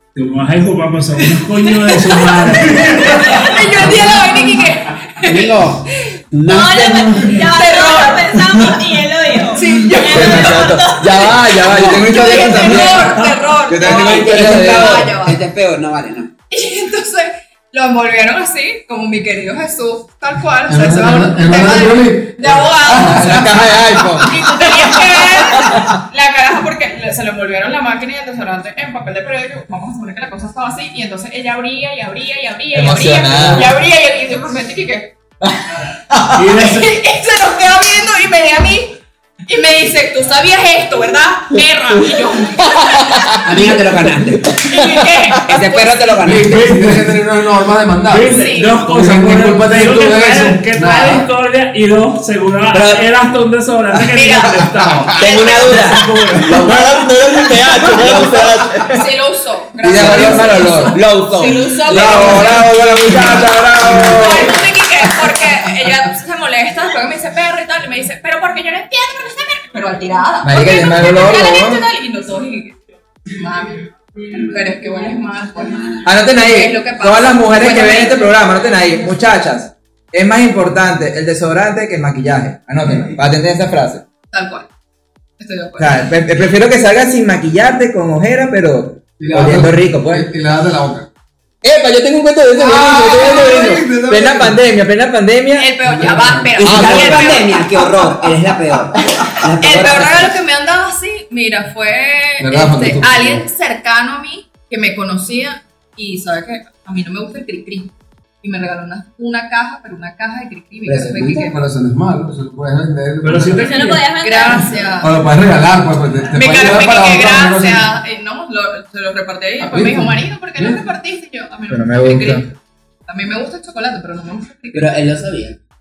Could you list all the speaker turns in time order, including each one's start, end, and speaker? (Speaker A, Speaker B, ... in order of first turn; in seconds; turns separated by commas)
Speaker A: 0.1-3.5, Speaker B: 1.5-6.1, Speaker C: 3.2-3.6, Speaker D: 5.2-7.5, Speaker C: 6.4-11.9, Speaker B: 7.4-8.6, Speaker B: 9.5-10.7, Speaker E: 10.0-15.1, Speaker D: 11.7-12.1, Speaker B: 11.9-15.4, Speaker D: 13.8-16.3, Speaker B: 16.5-35.1, Speaker F: 20.7-23.5, Speaker E: 22.9-26.0, Speaker E: 32.7-33.8, Speaker E: 36.1-36.4, Speaker A: 36.3-36.9, Speaker B: 36.5-43.4, Speaker E: 41.5-45.6, Speaker D: 43.4-44.6, Speaker B: 44.6-46.0, Speaker D: 45.4-46.6, Speaker F: 46.2-51.3, Speaker A: 46.3-47.2, Speaker A: 48.0-57.0, Speaker B: 48.2-48.9, Speaker D: 52.7-53.1, Speaker B: 54.1-55.8, Speaker D: 55.1-57.0, Speaker E: 56.3-59.1, Speaker D: 57.8-58.7, Speaker B: 58.9-78.2, Speaker E: 59.8-61.0, Speaker D: 60.0-62.6, Speaker E: 61.9-64.6, Speaker E: 70.4-71.9, Speaker E: 76.0-84.0, Speaker B: 84.3-84.7, Speaker B: 85.4-86.1, Speaker E: 85.8-90.3, Speaker F: 89.2-91.1, Speaker E: 91.6-95.7, Speaker F: 92.5-94.6, Speaker B: 95.5-97.9, Speaker F: 95.8-96.7, Speaker D: 96.5-100.3, Speaker E: 96.6-97.4, Speaker B: 99.6-111.7, Speaker E: 99.6-100.1, Speaker F: 102.4-103.4, Speaker F: 110.9-113.8, Speaker A: 113.2-114.1, Speaker C: 113.5-114.9, Speaker B: 114.2-115.2, Speaker F: 115.0-117.9, Speaker B: 116.3-122.5, Speaker F: 119.6-120.8, Speaker E: 121.7-122.5, Speaker B: 123.1-125.1, Speaker D: 124.7-125.6